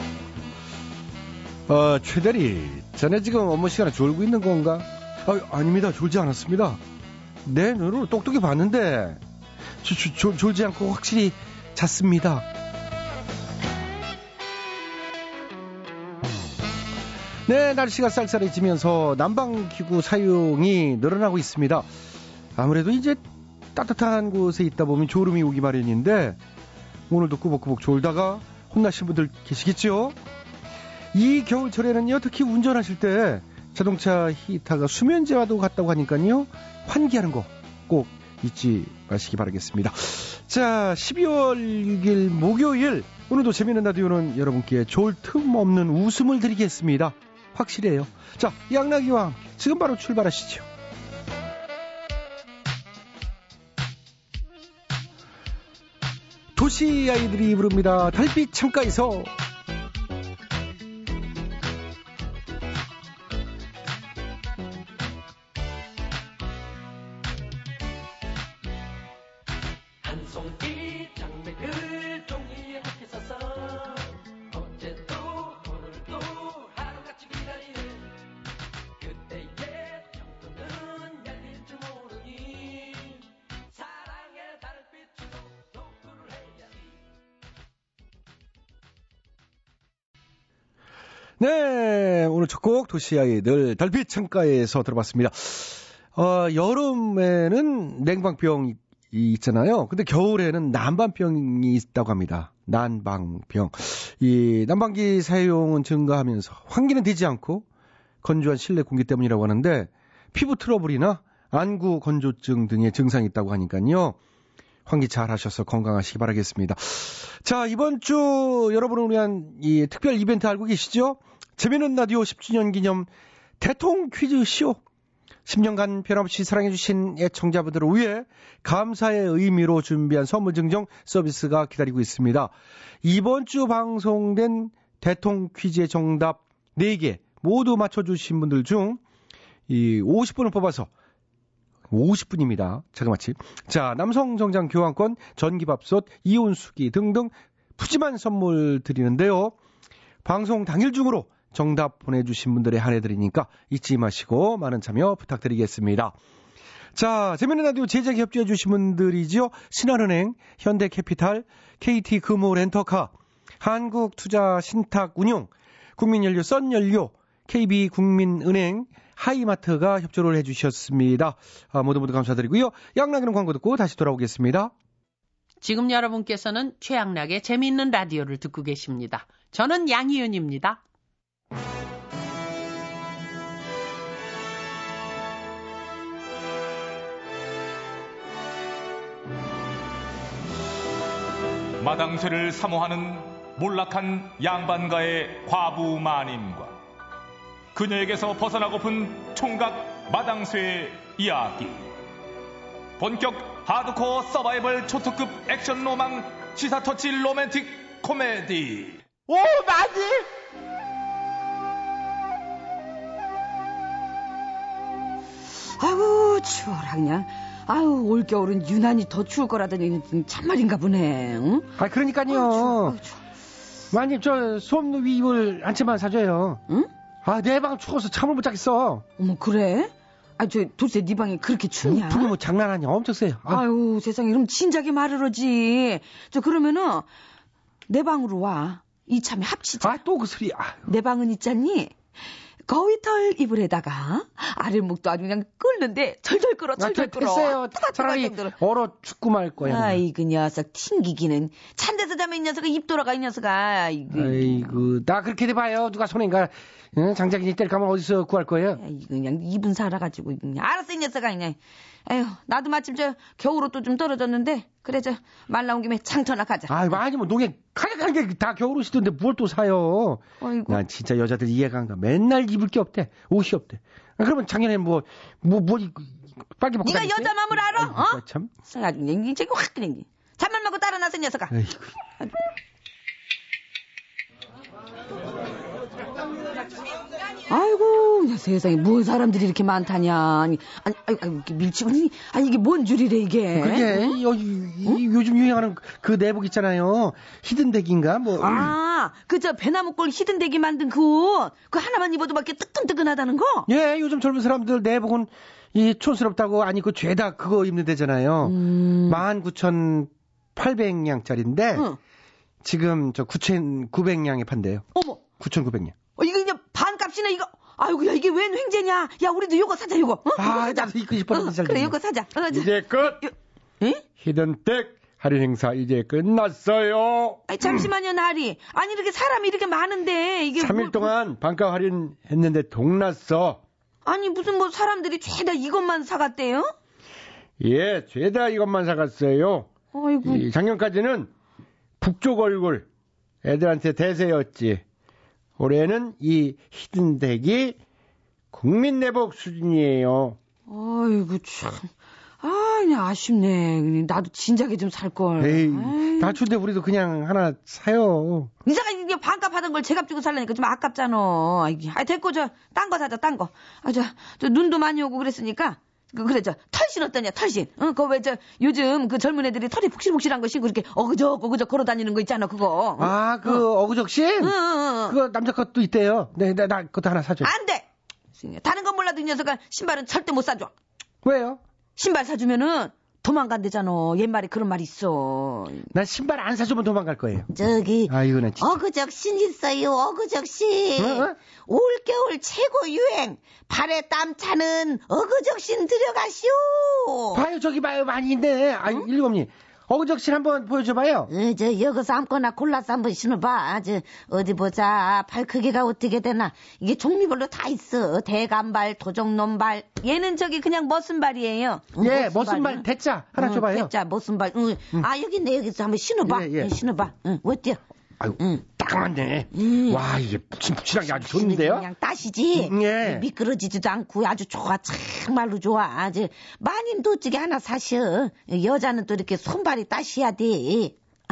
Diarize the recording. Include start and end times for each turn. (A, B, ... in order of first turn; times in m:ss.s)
0:01.7-0:06.8 A
0:07.4-0:09.2 A
0:09.8-0:12.5 A
0:17.4-0:21.9 A
0:22.6-0:26.4 A
0:27.1-0:30.2 A
0:31.1-0:50.7 A
0:56.6-0:59.3 A
1:31.4-1:47.7 A
1:48.2-1:54.2 A
1:54.8-2:04.8 A
2:05.5-2:19.0 A
2:19.7-2:20.9 A
2:21.9-2:29.6 A
2:30.2-2:36.2 A
2:36.9-2:54.7 A
2:55.6-3:00.8 B
3:11.8-3:16.8 C
3:17.8-3:21.9 C
3:23.0-3:29.0 C
3:29.3-3:30.2 A
3:35.6-3:41.8 D
3:41.8-3:43.0 A
3:42.3-3:43.2 D
3:43.9-3:46.6 A
3:47.2-3:49.0 A
3:49.2-3:52.3 D
3:51.8-3:53.6 A
3:53.5-3:57.1 D
3:57.9-4:00.0 D
3:59.8-4:00.8 A
4:00.9-4:02.0 D
4:02.7-4:08.5 D
4:06.8-4:10.0 A
4:09.6-4:14.6 D
4:14.1-4:18.8 A
4:18.8-4:26.7 D
4:26.7-4:38.5 A
4:30.4-4:30.8 D
4:36.8-4:41.5 D
4:41.5-4:41.9 A
4:47.5-4:54.2 D
4:53.5-4:58.7 A
4:58.4-5:03.7 D
5:03.7-5:11.9 A
5:08.4-5:09.2 D
5:12.6-5:15.9 A
5:14.9-5:15.2 D
5:16.2-5:24.0 D
5:20.4-5:22.0 A
5:22.5-5:23.2 A
5:24.2-5:27.9 A
5:27.5-5:31.1 D
5:30.6-5:33.6 A
5:34.0-5:36.7 D
5:37.6-5:39.7 A
5:39.9-5:40.4 D
5:40.2-5:41.3 A
5:42.0-5:42.9 A
5:43.4-5:44.8 A
5:45.6-5:47.8 A
5:48.5-5:50.4 A
5:50.7-5:51.9 D
5:52.4-5:56.4 D
5:55.4-5:58.5 A
5:58.6-6:13.6 D
6:13.0-6:14.5 A
6:14.4-6:15.2 D
6:15.0-6:17.5 A
6:17.4-6:20.7 D
6:21.2-6:21.6 A
6:22.0-6:25.9 D
6:25.9-6:27.5 A
6:27.5-6:37.4 E
6:28.1-6:28.8 A
6:31.0-6:31.4 A
6:37.3-6:41.3 A
6:41.3-6:50.0 E
6:50.0-6:52.0 D
6:52.0-6:52.8 E
6:52.0-6:53.9 A
6:53.4-6:57.8 E
6:56.2-6:56.7 A
6:58.2-7:01.9 A
6:59.5-7:00.0 E
7:01.0-7:11.0 E
7:02.5-7:03.2 A